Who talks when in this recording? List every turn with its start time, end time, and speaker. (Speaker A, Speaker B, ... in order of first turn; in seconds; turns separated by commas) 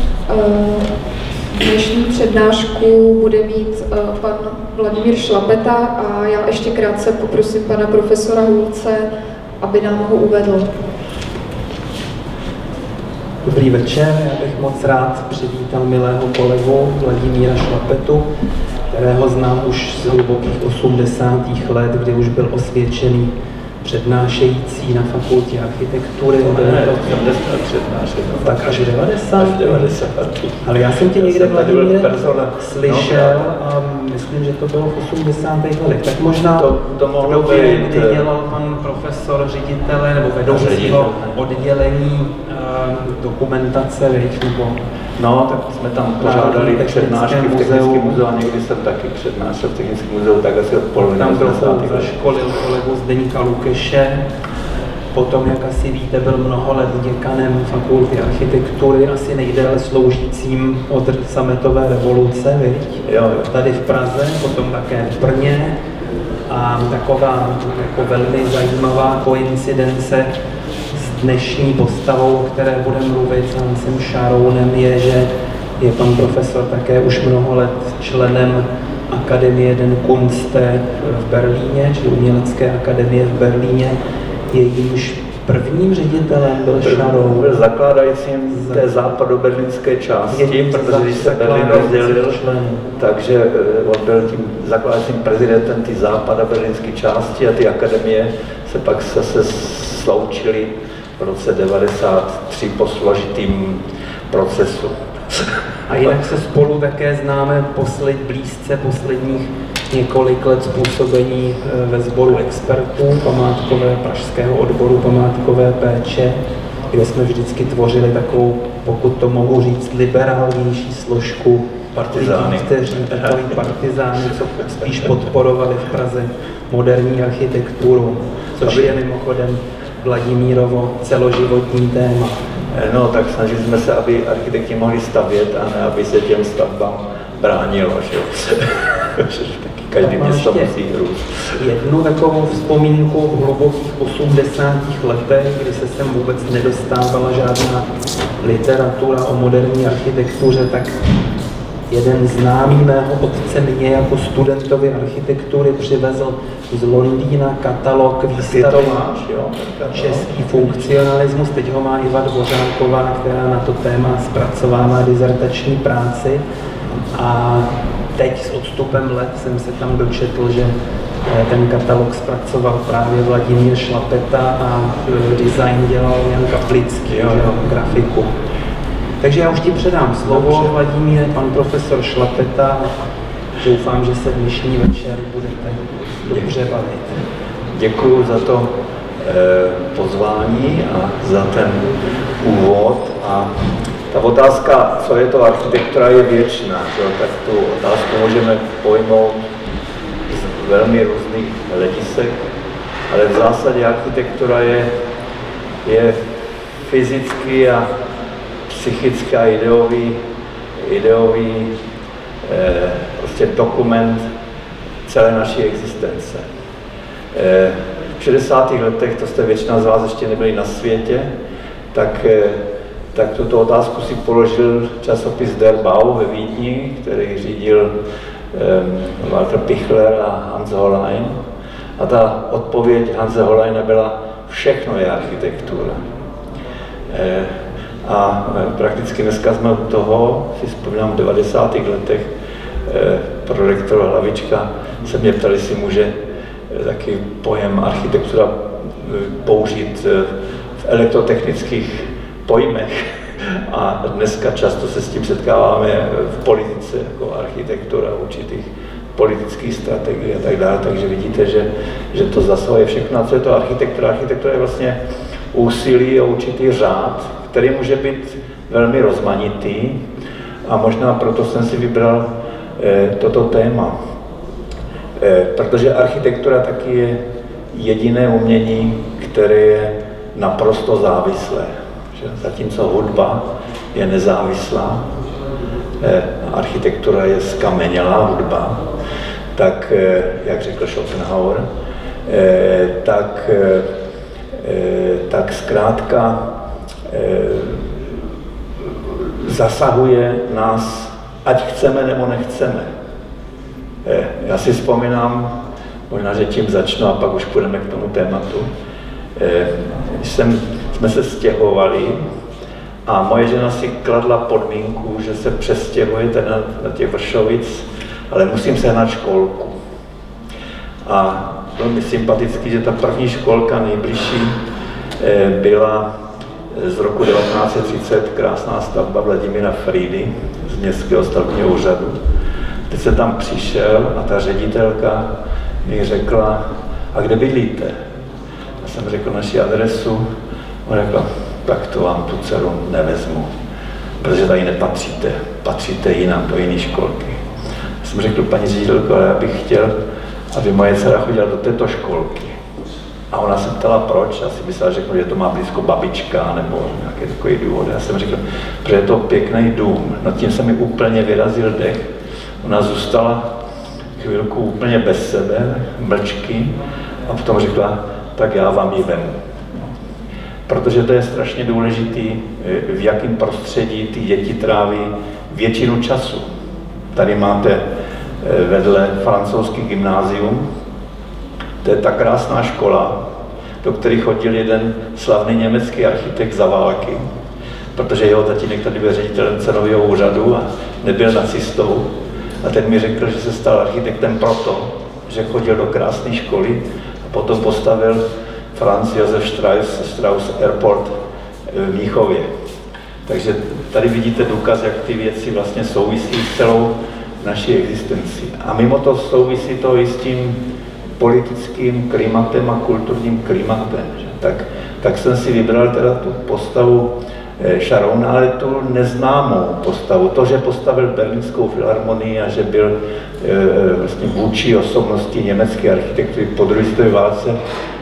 Speaker A: 0.3-0.9, Speaker A: 1.6-10.7, Speaker B: 13.4-18.3, Speaker B: 18.9-27.2, Speaker C: 26.4-33.6, Speaker B: 28.4-29.9, Speaker B: 30.6-44.9, Speaker C: 36.5-38.2, Speaker C: 40.5-41.4, Speaker C: 45.2-52.1, Speaker B: 46.2-48.2, Speaker B: 51.1-54.3, Speaker B: 55.1-65.8, Speaker C: 63.1-63.5, Speaker B: 66.5-70.3, Speaker B: 70.9-84.0, Speaker B: 84.5-87.6, Speaker C: 86.8-92.4, Speaker B: 88.5-88.8, Speaker B: 90.3-92.9, Speaker C: 93.0-105.3, Speaker B: 105.9-132.4, Speaker C: 121.9-123.7, Speaker C: 124.4-125.2, Speaker C: 132.7-141.6, Speaker B: 140.0-140.7, Speaker B: 141.6-147.9, Speaker B: 148.4-151.0, Speaker B: 151.9-159.1, Speaker C: 158.3-160.9, Speaker B: 159.9-166.4, Speaker B: 167.1-178.3, Speaker C: 177.1-177.5, Speaker B: 179.2-183.0, Speaker C: 180.3-180.7, Speaker B: 183.6-187.2, Speaker C: 187.7-193.5, Speaker C: 194.1-199.4, Speaker C: 200.3-202.4, Speaker C: 203.1-204.9, Speaker C: 205.8-206.2, Speaker C: 206.8-207.9, Speaker C: 208.7-210.2, Speaker C: 210.8-211.7, Speaker C: 212.4-214.3, Speaker C: 215.1-216.4, Speaker C: 217.3-221.3, Speaker C: 221.9-227.9, Speaker C: 228.5-231.4, Speaker C: 232.0-236.0, Speaker C: 237.1-242.3, Speaker C: 242.8-246.2, Speaker C: 246.7-250.3, Speaker C: 250.8-265.0, Speaker C: 265.5-270.0, Speaker C: 270.6-273.9, Speaker C: 275.2-277.2, Speaker C: 277.7-285.1, Speaker C: 286.0-288.8, Speaker C: 289.6-291.7, Speaker C: 292.3-293.9, Speaker C: 294.6-296.4, Speaker C: 297.1-298.2, Speaker C: 298.8-302.9, Speaker C: 304.1-305.5, Speaker C: 306.1-308.7, Speaker C: 309.4-312.2, Speaker C: 313.1-319.8, Speaker C: 321.1-324.6, Speaker C: 325.2-326.1, Speaker C: 326.7-332.2, Speaker C: 332.9-335.3, Speaker C: 335.8-337.9, Speaker C: 338.8-340.2, Speaker C: 340.9-343.5, Speaker C: 344.2-347.4, Speaker C: 348.0-349.9, Speaker C: 350.5-352.6, Speaker C: 353.3-362.1, Speaker C: 362.6-363.4, Speaker C: 364.2-366.8, Speaker C: 367.3-369.9, Speaker C: 370.7-376.5, Speaker C: 377.1-377.8, Speaker C: 378.4-380.7, Speaker C: 381.8-383.1, Speaker C: 383.8-387.2, Speaker C: 387.9-392.1, Speaker C: 392.6-398.2, Speaker C: 398.8-401.1, Speaker C: 401.7-402.5, Speaker C: 403.3-410.6, Speaker C: 411.2-427.6